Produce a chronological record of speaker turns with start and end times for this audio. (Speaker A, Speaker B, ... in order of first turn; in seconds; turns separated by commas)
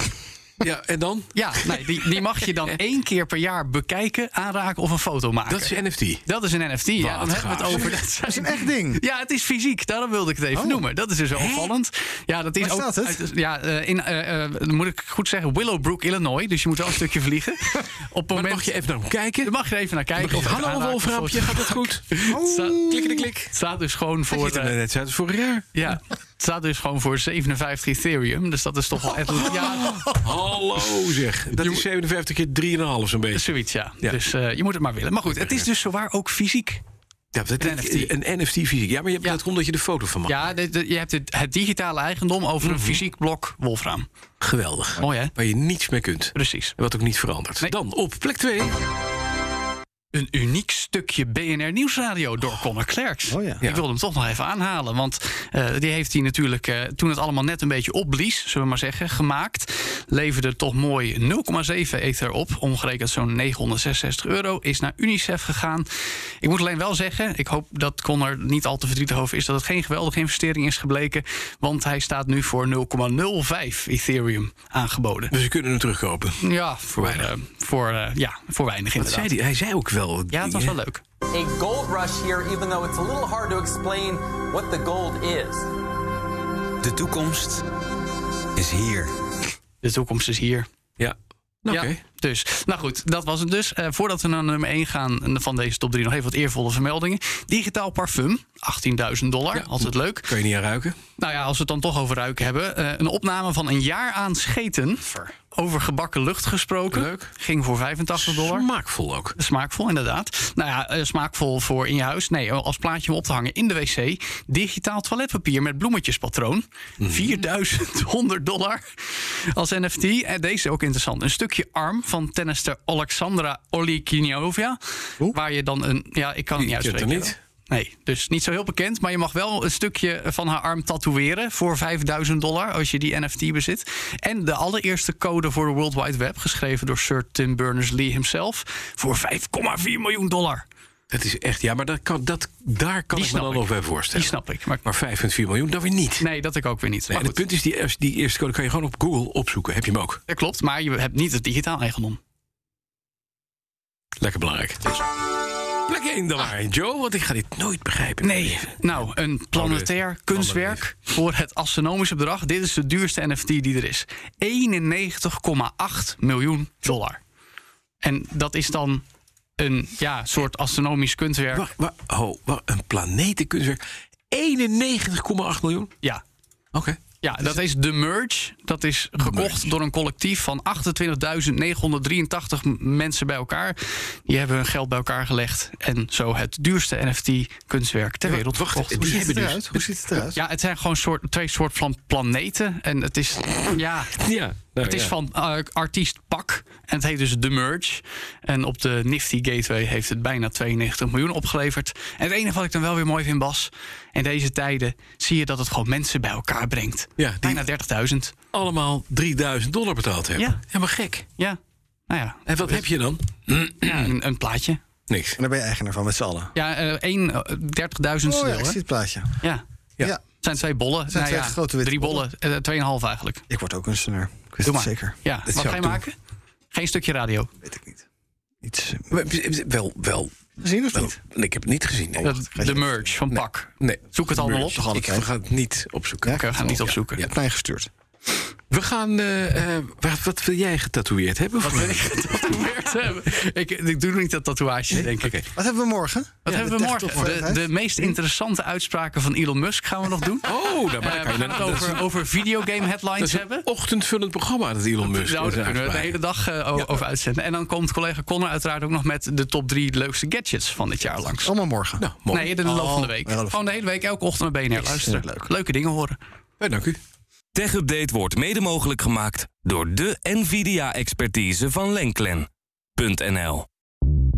Speaker A: 0.6-2.8, Speaker B: 1.4-18.7, Speaker A: 5.5-6.2, Speaker A: 7.0-8.0, Speaker C: 8.2-9.0, Speaker C: 10.6-10.8, Speaker A: 11.3-11.7, Speaker C: 12.6-13.2, Speaker A: 18.3-19.5, Speaker B: 19.4-24.8, Speaker A: 20.2-22.2, Speaker C: 22.3-22.8, Speaker A: 22.8-23.5, Speaker A: 24.3-25.7, Speaker B: 25.8-30.2, Speaker A: 29.3-34.2, Speaker B: 31.5-31.9, Speaker B: 33.3-36.8, Speaker A: 35.3-35.7, Speaker A: 37.3-40.4, Speaker B: 37.6-38.1, Speaker B: 40.2-44.1, Speaker A: 42.6-43.0, Speaker A: 44.4-48.8, Speaker B: 45.0-45.4, Speaker B: 46.4-46.8, Speaker B: 50.1-65.9, Speaker C: 53.3-53.6, Speaker B: 66.4-75.3, Speaker A: 75.3-77.3, Speaker B: 76.4-79.3, Speaker A: 79.0-80.8, Speaker B: 80.3-81.0, Speaker D: 81.3-85.7, Speaker B: 89.8-90.7, Speaker A: 91.0-92.0, Speaker B: 91.7-100.3, Speaker A: 99.5-101.0, Speaker B: 101.2-108.7, Speaker A: 106.9-107.3, Speaker A: 108.2-109.3, Speaker B: 109.4-140.7, Speaker A: 117.0-117.4, Speaker A: 126.6-127.4, Speaker A: 141.1-146.2, Speaker B: 143.1-144.8, Speaker B: 146.2-147.4, Speaker A: 147.1-150.2, Speaker B: 150.3-152.2, Speaker A: 154.2-155.0, Speaker A: 155.9-158.8, Speaker B: 158.2-167.2, Speaker A: 159.5-160.8, Speaker B: 168.0-169.0, Speaker B: 169.6-171.7, Speaker A: 171.5-175.9, Speaker A: 176.7-177.0, Speaker B: 177.2-189.4, Speaker A: 179.2-179.7, Speaker A: 188.2-189.9, Speaker C: 189.0-190.4, Speaker B: 190.2-194.2, Speaker A: 194.2-195.2, Speaker B: 194.8-208.3, Speaker A: 207.2-207.7, Speaker A: 208.5-211.2, Speaker B: 210.4-210.6, Speaker B: 211.4-212.8, Speaker A: 212.5-214.1, Speaker B: 213.5-214.8, Speaker A: 215.1-215.4, Speaker C: 215.4-216.5, Speaker B: 216.5-218.8, Speaker C: 218.3-219.3, Speaker B: 220.4-223.4, Speaker C: 221.1-222.3, Speaker C: 223.5-225.2, Speaker B: 224.7-226.2, Speaker A: 225.5-226.0, Speaker B: 226.7-227.5, Speaker C: 227.6-228.0, Speaker C: 228.6-229.1, Speaker A: 229.1-230.4, Speaker C: 230.6-231.2, Speaker A: 230.9-232.3, Speaker B: 232.2-234.8, Speaker C: 232.2-233.1, Speaker A: 233.3-237.3, Speaker C: 234.4-235.3, Speaker B: 236.3-237.2, Speaker C: 237.2-237.9, Speaker A: 238.7-242.5, Speaker B: 241.6-245.3, Speaker A: 244.9-245.5, Speaker C: 245.5-247.7, Speaker B: 246.5-253.7, Speaker A: 246.5-247.3, Speaker A: 250.4-252.1, Speaker A: 253.2-256.2, Speaker B: 255.1-261.5, Speaker C: 261.4-262.1, Speaker A: 262.0-262.6, Speaker B: 262.3-266.2, Speaker C: 262.6-263.6, Speaker C: 264.8-265.4, Speaker A: 266.6-267.0, Speaker E: 267.5-273.7